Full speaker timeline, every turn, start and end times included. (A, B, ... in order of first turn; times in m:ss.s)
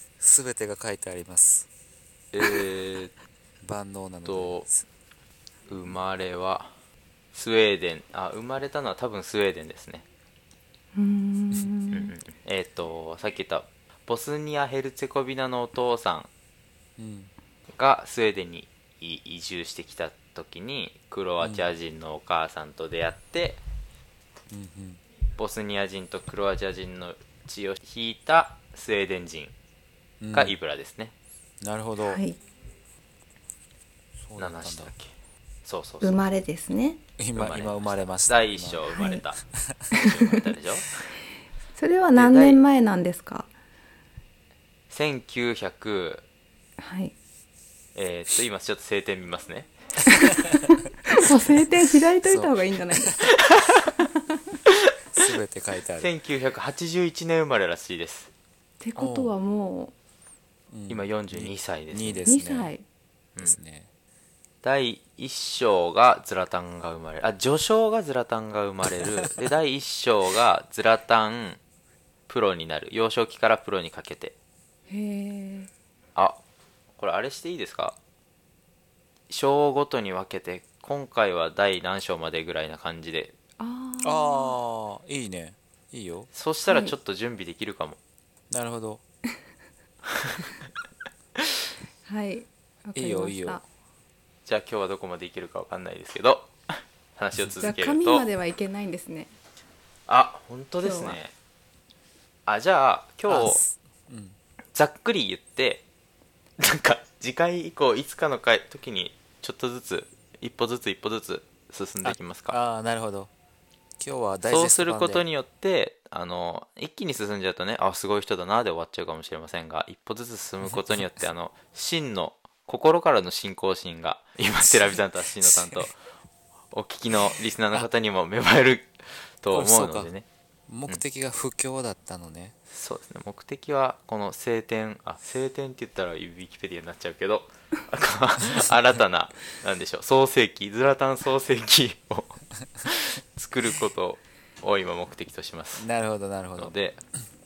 0:00.2-0:01.7 A
0:02.3-0:03.1 B
0:03.6-0:04.8 A
0:04.2-0:04.6 B
0:05.7-0:06.7 B
0:07.3-0:10.0 B
0:10.9-0:12.1 C
0:11.9-0:16.3 B
0:17.0-0:17.3 A
0:17.7-0:23.6 B
0:21.4-0:21.7 A
0:24.5-0:25.0 A
0:25.4-0:29.5 B
0:30.2-0:30.6 A
0:30.3-0:31.1 B
0:31.6-0:32.2 A
0:32.0-0:32.4 C
0:34.2-0:34.9 A
0:34.4-0:35.1 B
0:35.6-0:36.2 B
0:36.0-0:37.0 C
0:37.2-0:38.9 A
0:37.3-0:39.4 B
0:38.9-0:39.2 C
0:39.5-0:39.9 A
0:39.9-0:41.0 B
0:39.9-0:40.4 C
0:41.8-0:43.5 C
0:42.1-0:42.6 B
0:44.9-0:46.2 B
0:46.8-0:47.1 C
0:47.9-0:50.1 B
0:50.0-0:53.3 C
0:52.2-0:53.4 A
0:54.0-0:54.4 C
0:55.1-0:56.1 A
0:56.0-0:58.3 B
0:58.8-0:59.9 C
0:59.0-0:59.3 A
1:00.7-1:02.7 A
1:00.9-1:02.3 B
1:02.3-1:02.8 C
1:03.4-1:03.9 A
1:04.6-1:11.6 B
1:09.0-1:09.3 A
1:12.3-1:14.3 B
1:14.9-1:15.7 C
1:17.0-1:18.0 B
1:19.3-1:23.3 B
1:23.6-1:24.6 C
1:24.0-1:26.3 A
1:26.3-1:28.0 B
1:26.6-1:26.9 C
1:28.5-1:29.0 A
1:30.1-1:30.4 B
1:32.0-1:33.6 C
1:33.0-1:33.6 A
1:34.4-1:38.2 B
1:37.6-1:39.3 C
1:40.1-1:41.3 B
1:40.8-1:41.2 C
1:42.5-1:43.6 B
1:43.3-1:44.4 A
1:44.7-1:45.8 B
1:46.6-1:52.6 B
1:52.0-1:53.3 A
1:54.0-1:55.2 A
1:54.5-2:06.0 B
2:00.6-2:01.1 A
2:04.6-2:05.9 A
2:06.7-2:10.2 B
2:07.2-2:07.9 A
2:09.5-2:10.1 A
2:10.7-2:12.6 A
2:12.7-2:25.9 B
2:25.8-2:26.7 A
2:26.6-2:27.0 B